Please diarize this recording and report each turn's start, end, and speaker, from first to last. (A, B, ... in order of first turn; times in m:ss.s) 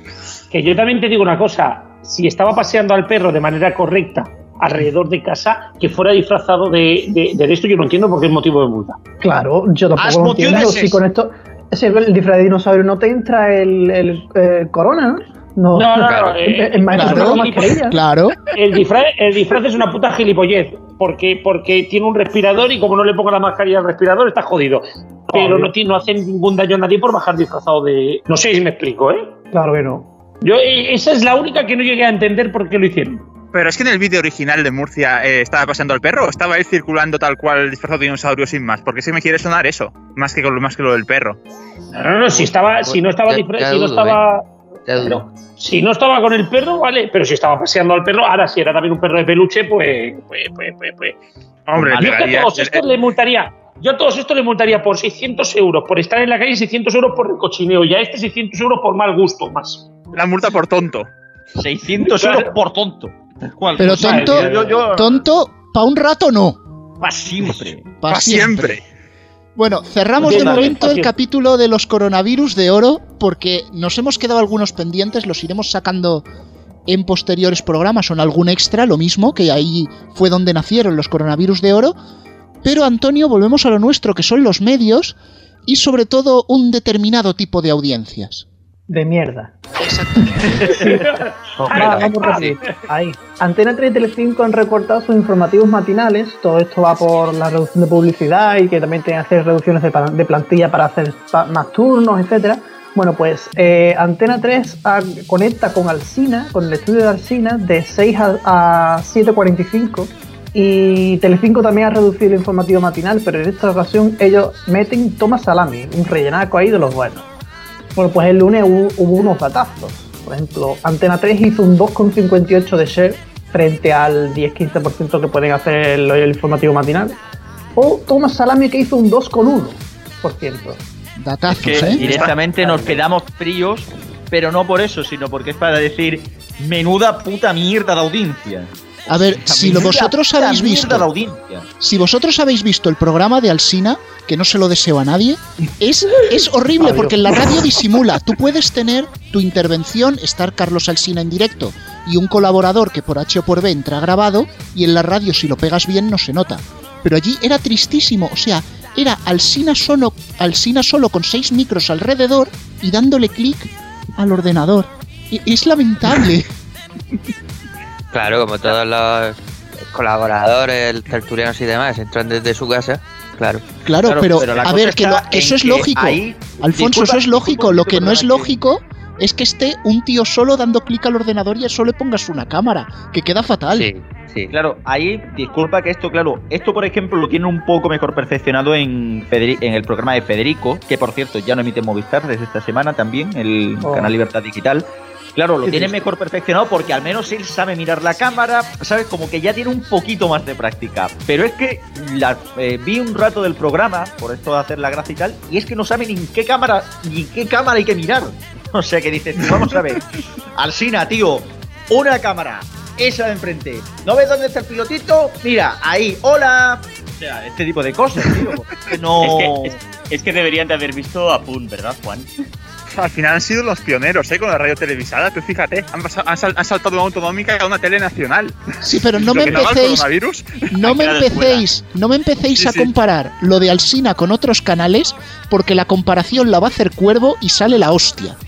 0:00.5-0:09.0 A
0:09.2-0:18.0 B
0:10.0-0:11.0 C
0:15.7-0:17.9 A
0:16.0-0:16.4 D
0:16.9-0:18.4 E
0:18.5-0:29.4 A
0:25.3-0:25.7 B
0:29.5-0:30.1 B
0:30.4-0:33.3 A
0:33.5-0:41.4 F
0:41.9-0:44.5 A
0:42.8-0:44.2 D
0:44.9-0:45.3 D
0:45.0-0:51.2 A
0:51.7-0:52.8 F
0:51.8-0:52.1 C
0:51.9-0:59.9 A
1:00.1-1:01.1 F
1:01.6-1:05.1 C
1:02.0-1:02.5 A
1:03.7-1:05.0 A
1:03.8-1:06.6 E
1:07.0-1:07.9 C
1:08.0-1:08.8 E
1:08.1-1:08.8 F
1:09.6-1:16.3 E
1:10.2-1:10.8 C
1:10.2-1:11.1 A
1:16.9-1:22.0 E
1:22.6-1:28.5 E
1:28.9-1:29.6 B
1:29.8-1:30.7 E
1:30.2-1:30.7 B
1:30.6-1:30.9 C
1:30.7-1:32.8 A
1:31.6-1:57.3 B
1:31.8-1:32.5 D
1:58.0-2:07.2 B
2:07.8-2:10.8 B
2:11.2-2:12.0 E
2:11.5-2:21.7 C
2:12.0-2:12.3 F
2:19.1-2:21.3 E
2:21.8-2:46.5 E
2:26.8-2:27.1 C
2:48.1-2:49.4 D
2:49.9-2:53.6 D
2:53.8-3:03.9 E
2:54.0-2:58.6 C
3:03.7-3:04.5 D
3:04.5-3:14.8 C
3:13.8-3:14.2 B
3:15.4-3:39.8 C
3:39.2-3:42.3 G
3:42.9-3:48.6 F
3:48.8-3:50.1 E
3:49.1-3:50.7 F
3:50.7-3:58.4 E
3:50.8-3:51.7 G
3:52.6-3:52.9 F